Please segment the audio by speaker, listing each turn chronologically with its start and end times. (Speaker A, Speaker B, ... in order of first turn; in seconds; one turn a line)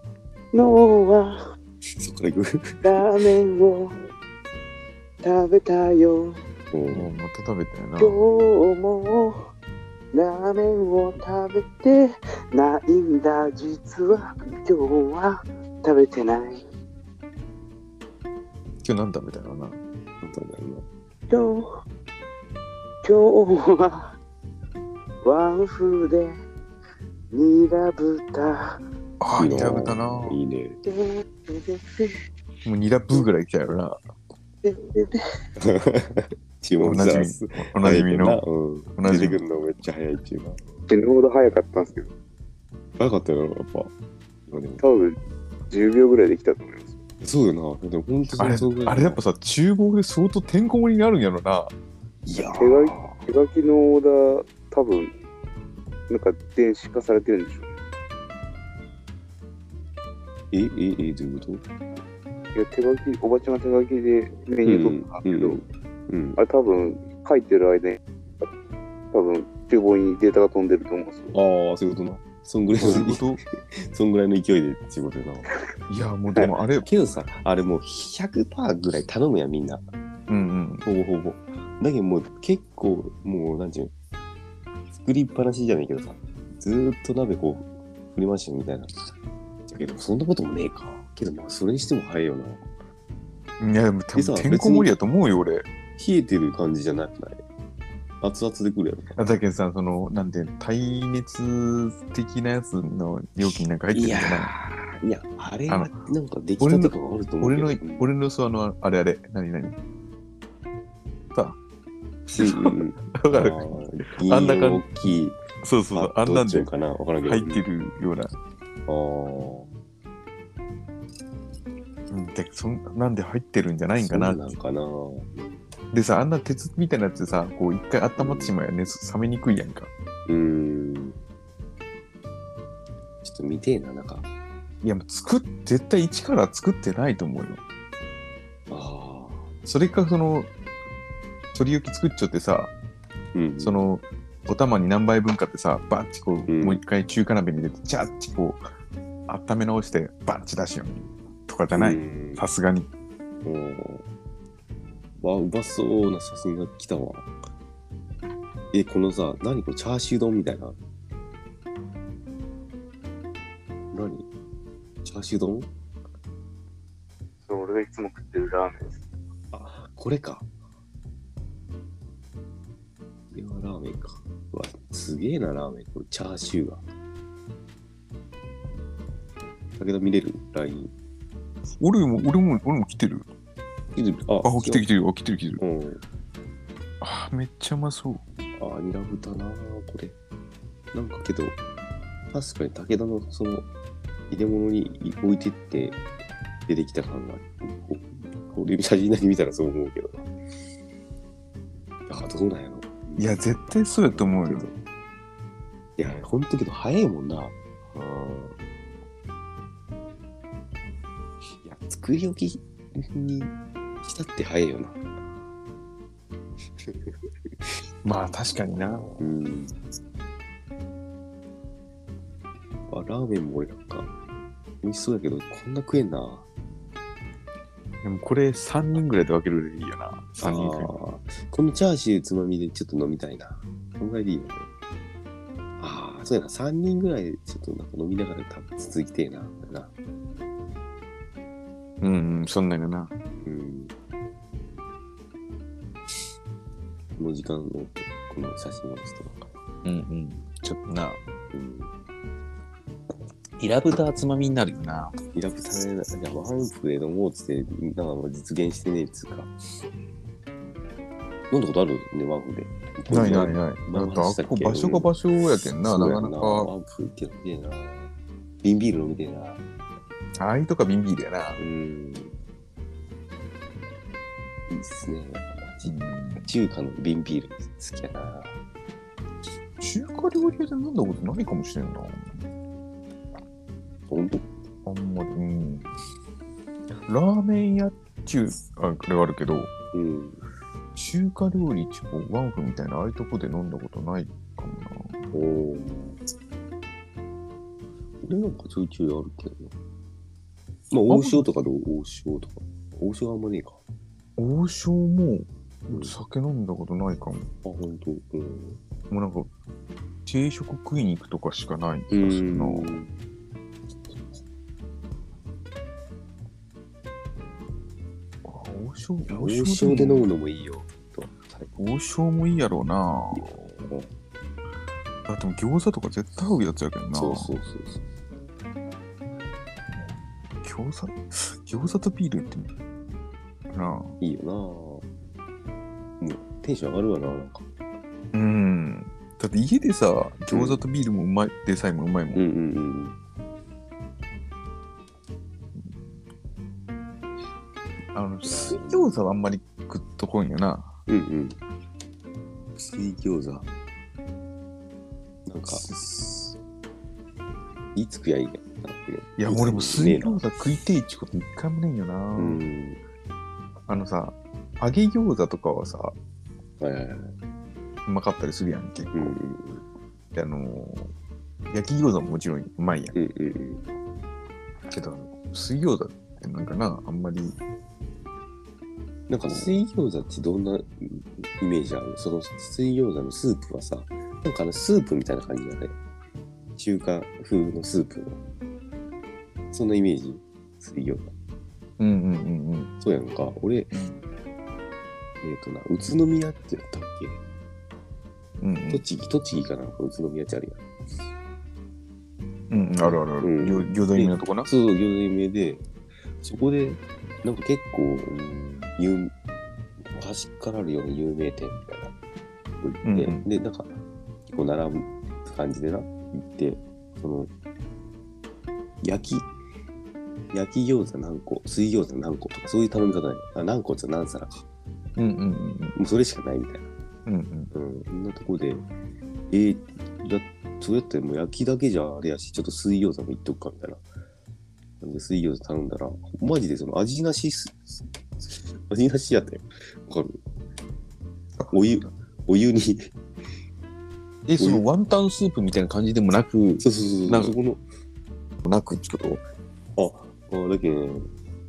Speaker A: 0.5-1.4
Speaker B: 1.9-3.1
Speaker A: 2.8-4.0
Speaker A: 5.2-6.4
Speaker B: 6.7-7.1
Speaker C: 6.9-8.2
Speaker A: 8.0-9.4
Speaker A: 10.1-16.6
Speaker C: 18.8-19.8
Speaker B: 20.2-20.9
Speaker A: 21.3-21.7
Speaker A: 23.0-24.1
Speaker A: 25.2-26.4
Speaker A: 27.3-28.8
Speaker C: 29.2-30.4
Speaker B: 29.4-30.8
Speaker A: 30.9-32.2
Speaker C: 32.6-34.0
Speaker A: 34.6-35.2
Speaker B: 35.6-40.7
Speaker C: 36.8-38.4
Speaker C: 39.0-39.4
Speaker A: 40.9-42.1
Speaker B: 43.0-43.9
Speaker B: 44.5-44.8
Speaker A: 44.8-45.2
Speaker A: 45.7-47.0
Speaker B: 47.2-49.2
Speaker C: 48.4-51.7
Speaker B: 52.2-53.2
Speaker A: 52.5-55.1
Speaker A: 56.1-57.7
Speaker B: 60.5-61.6
Speaker A: 62.5-65.6
Speaker B: 64.7-66.4
Speaker A: 66.4-68.5
Speaker A: 69.1-71.4
Speaker B: 71.3-75.5
Speaker C: 72.8-73.4
Speaker C: 75.9-76.9
Speaker B: 76.8-79.8
Speaker C: 80.3-80.8
Speaker B: 80.8-83.9
Speaker B: 84.9-89.1
Speaker B: 89.7-92.6
Speaker C: 93.6-95.7
Speaker B: 94.2-94.9
Speaker B: 96.0-97.4
Speaker B: 98.2-99.2
Speaker C: 99.2-104.5
Speaker B: 103.9-108.1
Speaker C: 105.7-106.0
Speaker C: 106.6-109.8
Speaker C: 112.3-116.7
Speaker B: 112.4-115.4
Speaker B: 115.9-117.6
Speaker C: 117.2-118.3
Speaker B: 118.9-119.7
Speaker C: 122.1-124.5
Speaker B: 124.0-125.6
Speaker C: 125.9-129.9
Speaker B: 128.2-128.6
Speaker B: 130.3-131.2
Speaker B: 133.2-134.3
Speaker C: 134.8-137.6
Speaker B: 138.7-139.5
Speaker C: 139.7-140.5
Speaker C: 141.5-142.7
Speaker B: 143.3-143.9
Speaker C: 143.6-148.7
Speaker B: 146.5-146.8
Speaker C: 149.3-152.9
Speaker B: 151.7-152.4
Speaker B: 153.4-154.1
Speaker B: 155.2-157.3
Speaker B: 158.7-160.8
Speaker B: 163.9-164.3
Speaker B: 165.0-165.7
Speaker A: 167.5-169.0
Speaker B: 169.5-170.5
Speaker B: 173.3-176.8
Speaker B: 179.8-180.9
Speaker C: 181.8-183.3
Speaker B: 183.9-184.9
Speaker C: 184.4-185.6
Speaker B: 185.6-186.0
Speaker C: 187.0-188.2
Speaker B: 188.6-190.2
Speaker B: 190.9-191.6
Speaker B: 192.3-193.7
Speaker B: 194.3-196.0
Speaker B: 196.7-200.3
Speaker B: 202.1-203.4
Speaker C: 203.2-204.7
Speaker B: 204.1-204.8
Speaker B: 206.0-208.6
Speaker B: 211.6-215.0
Speaker B: 216.8-217.2
Speaker C: 218.0-219.3
Speaker B: 219.2-219.8
Speaker B: 222.9-224.1
Speaker B: 224.8-226.5
Speaker C: 228.0-230.9
Speaker B: 230.4-234.7
Speaker B: 235.8-239.9
Speaker C: 242.0-243.1
Speaker B: 243.4-243.9
Speaker B: 247.2-249.5
Speaker C: 249.8-251.2
Speaker B: 251.5-251.9
Speaker C: 253.6-255.2
Speaker B: 255.3-259.5
Speaker B: 261.5-265.1
Speaker C: 263.1-266.7
Speaker B: 265.8-268.1
Speaker B: 268.6-269.6
Speaker C: 270.4-271.6
Speaker B: 271.6-272.4
Speaker B: 274.7-278.5
Speaker C: 275.9-276.5
Speaker C: 279.8-282.4
Speaker B: 284.1-284.5
Speaker C: 284.9-285.9
Speaker C: 287.1-289.7
Speaker B: 289.9-290.4
Speaker C: 290.9-295.3
Speaker B: 295.3-296.2
Speaker B: 298.2-299.8
Speaker B: 300.9-303.8
Speaker C: 301.1-301.5
Speaker C: 304.4-307.5
Speaker B: 305.9-306.1
Speaker B: 307.6-308.8
Speaker C: 309.1-309.5
Speaker C: 310.3-313.0
Speaker B: 312.1-313.1
Speaker C: 318.4-320.2
Speaker B: 319.3-321.7
Speaker C: 321.7-323.6
Speaker B: 323.3-324.1
Speaker C: 325.3-327.6
Speaker B: 327.1-328.0
Speaker C: 329.9-332.7
Speaker C: 333.7-334.1
Speaker B: 334.2-335.1
Speaker B: 336.2-337.6
Speaker C: 338.3-342.5
Speaker B: 340.5-340.8
Speaker B: 342.4-343.2
Speaker C: 348.1-350.9
Speaker B: 348.4-349.2
Speaker B: 351.1-351.6
Speaker B: 352.8-353.7
Speaker B: 355.5-355.9
Speaker C: 355.7-356.4
Speaker B: 357.9-360.4
Speaker C: 359.4-362.6
Speaker B: 362.4-363.0
Speaker C: 363.9-366.1
Speaker B: 366.8-367.4
Speaker C: 368.1-369.4
Speaker B: 369.1-369.9
Speaker C: 370.3-371.1
Speaker C: 371.7-373.1
Speaker B: 373.1-373.8
Speaker C: 374.9-377.6
Speaker B: 379.3-386.0
Speaker B: 386.8-388.4
Speaker B: 389.7-391.3
Speaker C: 392.0-392.9
Speaker B: 393.0-393.9
Speaker C: 393.9-394.2
Speaker B: 395.4-397.4
Speaker C: 398.6-399.0
Speaker B: 398.9-400.8
Speaker C: 402.7-404.7
Speaker B: 403.0-405.9
Speaker B: 406.4-409.3
Speaker B: 410.0-412.1
Speaker B: 412.8-414.0
Speaker C: 413.1-413.5
Speaker B: 414.5-417.5
Speaker B: 419.0-419.5
Speaker B: 420.5-424.7
Speaker C: 425.2-426.0
Speaker B: 425.9-426.9
Speaker C: 427.3-427.7
Speaker B: 427.7-428.9
Speaker B: 429.5-434.0
Speaker B: 435.0-440.4
Speaker B: 441.7-443.1
Speaker C: 444.5-447.5
Speaker B: 444.6-444.8
Speaker B: 446.8-447.8
Speaker C: 448.6-449.4
Speaker B: 450.0-451.3